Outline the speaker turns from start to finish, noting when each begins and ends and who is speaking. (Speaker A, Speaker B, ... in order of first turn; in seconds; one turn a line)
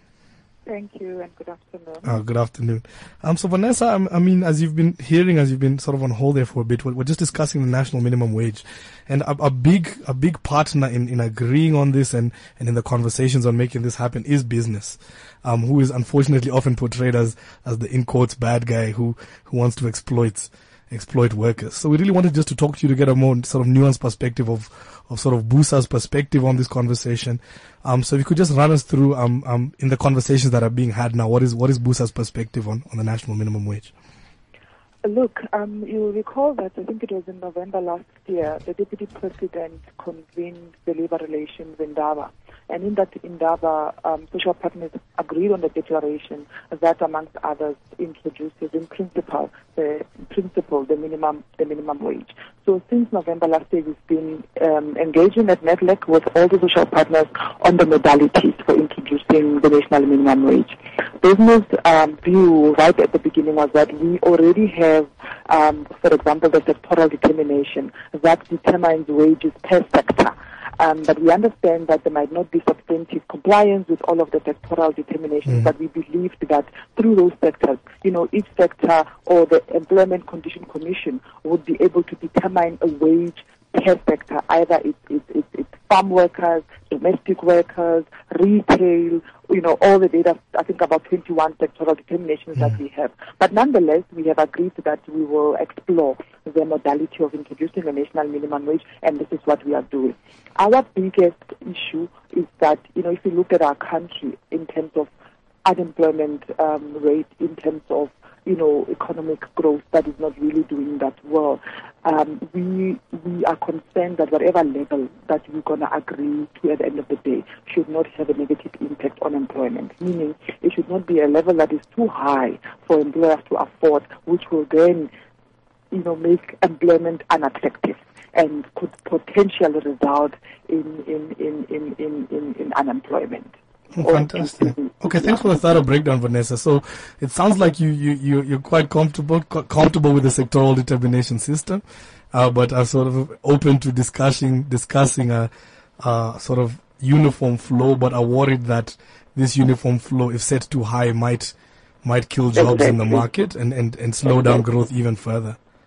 Speaker A: 0.7-2.1
Speaker B: 2.0-33.9
Speaker A: 35.0-105.1
Speaker B: 75.5-75.7
Speaker A: 105.7-125.1
Speaker A: 125.9-134.9
Speaker B: 133.9-155.6
Speaker A: 152.6-153.2